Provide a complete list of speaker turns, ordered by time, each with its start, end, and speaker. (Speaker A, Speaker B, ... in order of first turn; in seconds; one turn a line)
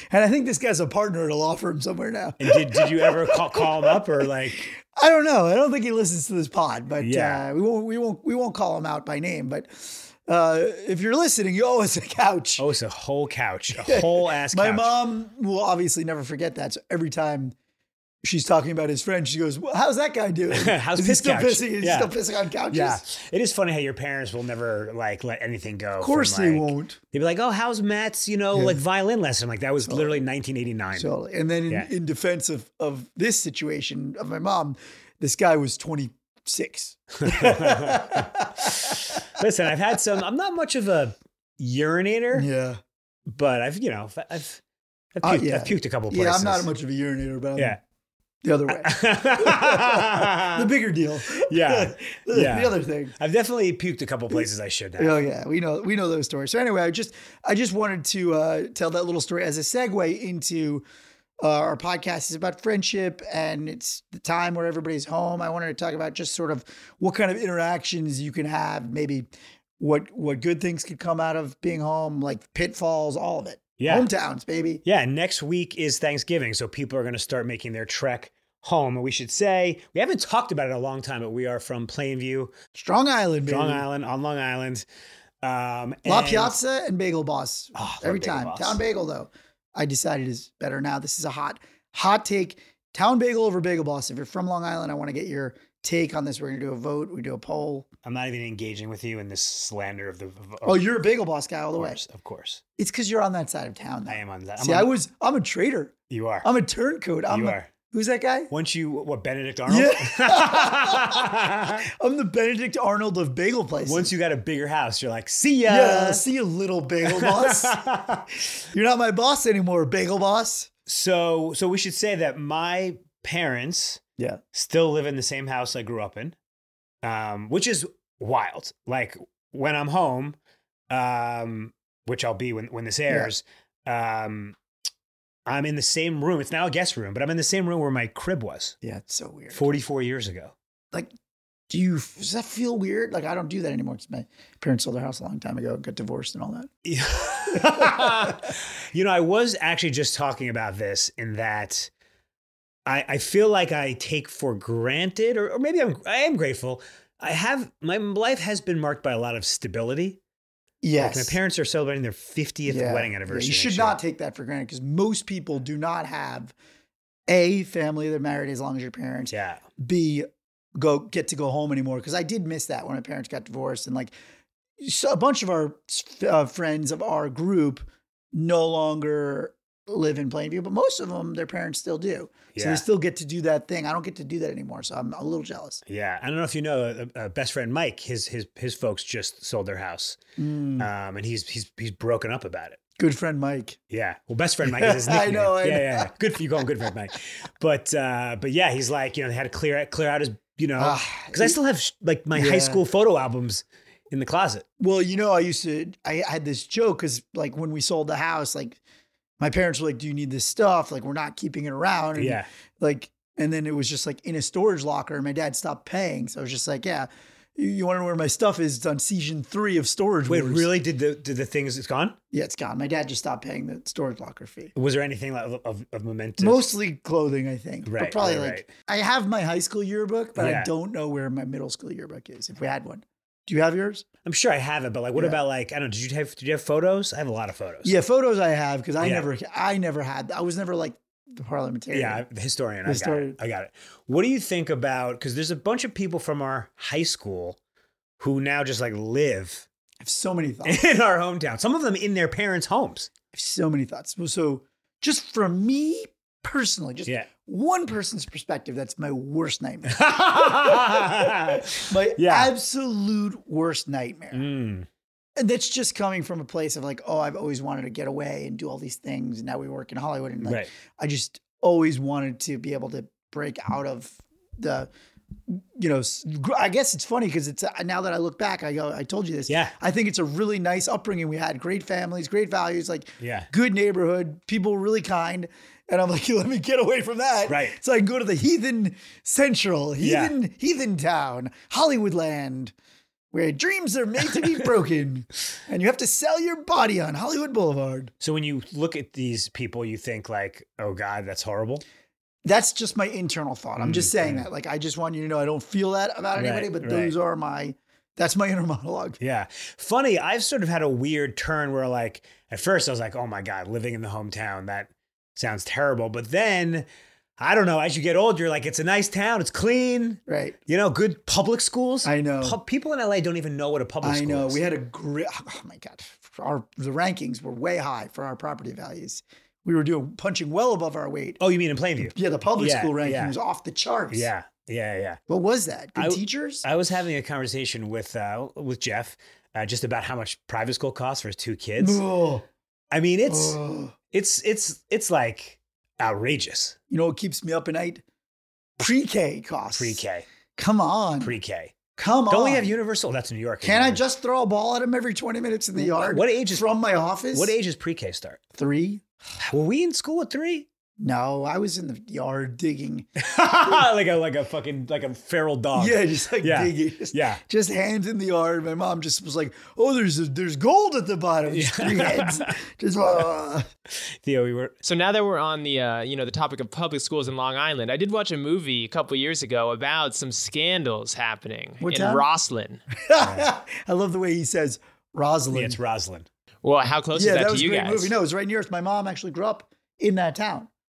Speaker A: 0.1-12.6
Speaker B: 2.4-4.6
Speaker B: 7.0-7.4
Speaker B: 12.6-14.9
Speaker A: 13.8-17.5
Speaker A: 18.2-23.0
Speaker B: 20.5-22.1
Speaker B: 22.7-31.1
Speaker A: 26.0-27.0
Speaker A: 28.5-28.8
Speaker A: 29.8-30.2
Speaker A: 30.9-39.2
Speaker B: 37.2-42.5
Speaker A: 42.3-42.8
Speaker B: 43.3-44.6
Speaker B: 45.1-46.7
Speaker A: 45.2-47.8
Speaker A: 48.4-53.1
Speaker B: 48.7-50.7
Speaker B: 51.3-55.2
Speaker A: 55.0-60.8
Speaker A: 61.4-74.8
Speaker B: 73.8-74.1
Speaker B: 74.8-82.5
Speaker A: 82.7-83.8
Speaker B: 83.5-84.8
Speaker B: 85.4-86.6
Speaker A: 86.0-97.9
Speaker B: 87.7-88.8
Speaker B: 98.0-100.8
Speaker A: 100.6-102.0
Speaker B: 101.8-102.6
Speaker A: 102.8-108.5
Speaker B: 104.1-104.9
Speaker B: 106.1-106.5
Speaker B: 107.3-107.7
Speaker B: 108.5-111.8
Speaker A: 109.7-111.3
Speaker A: 111.9-114.1
Speaker B: 113.8-116.2
Speaker A: 115.7-117.8
Speaker B: 117.0-118.5
Speaker A: 118.7-120.7
Speaker B: 120.9-126.3
Speaker B: 127.0-130.3
Speaker B: 130.9-134.6
Speaker B: 135.4-138.7
Speaker A: 138.8-139.8
Speaker B: 139.5-140.5
Speaker A: 141.7-146.7
Speaker B: 146.8-151.9
Speaker A: 147.5-148.4
Speaker B: 152.8-160.2
Speaker A: 160.8-161.4
Speaker B: 161.0-163.9
Speaker A: 162.7-166.5
Speaker A: 167.3-174.1
Speaker B: 169.3-169.6
Speaker A: 174.8-185.8
Speaker B: 182.5-182.8
Speaker B: 185.9-190.2
Speaker A: 190.4-190.9
Speaker B: 190.8-192.8
Speaker A: 193.0-193.8
Speaker B: 193.9-204.6
Speaker A: 194.6-196.1
Speaker A: 200.8-201.6
Speaker A: 202.3-202.8
Speaker A: 204.8-208.8
Speaker A: 209.4-220.7
Speaker B: 212.2-212.5
Speaker B: 220.2-222.2
Speaker A: 222.3-224.7
Speaker B: 224.7-226.6
Speaker A: 226.4-234.0
Speaker B: 227.8-228.7
Speaker B: 230.3-230.7
Speaker B: 234.2-237.9
Speaker A: 237.8-242.2
Speaker B: 239.0-239.3
Speaker B: 241.9-247.6
Speaker A: 242.8-243.4
Speaker B: 248.2-249.7
Speaker A: 250.0-250.8
Speaker B: 250.6-253.1
Speaker A: 253.3-264.4
Speaker B: 259.9-262.5
Speaker B: 264.3-264.9
Speaker A: 265.4-274.9
Speaker B: 270.4-270.7
Speaker A: 275.5-292.7
Speaker B: 279.5-279.7
Speaker B: 283.2-283.5
Speaker B: 287.4-287.8
Speaker B: 290.0-290.3
Speaker A: 293.3-298.1
Speaker B: 298.2-301.8
Speaker A: 302.4-309.2
Speaker B: 303.8-304.4
Speaker B: 306.3-307.1
Speaker B: 309.2-316.9
Speaker B: 317.4-324.6
Speaker A: 320.3-320.6
Speaker A: 322.0-322.6
Speaker A: 324.0-331.4
Speaker B: 331.4-333.3
Speaker A: 332.0-334.3
Speaker B: 334.1-335.2
Speaker A: 335.3-336.6
Speaker B: 335.9-342.0
Speaker A: 341.8-342.4
Speaker B: 342.9-343.6
Speaker A: 343.3-343.9
Speaker B: 344.1-346.8
Speaker A: 346.9-348.0
Speaker A: 348.8-350.0
Speaker B: 349.8-350.3
Speaker A: 350.6-351.4
Speaker B: 351.2-354.0
Speaker A: 351.9-352.7
Speaker A: 353.6-357.5
Speaker B: 355.8-356.6
Speaker B: 357.3-358.4
Speaker A: 358.5-359.0
Speaker B: 359.4-360.7
Speaker A: 361.0-363.1
Speaker B: 363.2-367.4
Speaker A: 365.7-373.6
Speaker B: 371.5-372.5
Speaker B: 374.2-374.7
Speaker C: 374.8-382.8
Speaker A: 381.8-382.2
Speaker A: 383.0-385.8
Speaker B: 383.2-383.5
Speaker B: 385.5-386.3
Speaker C: 386.6-388.1
Speaker A: 387.1-390.7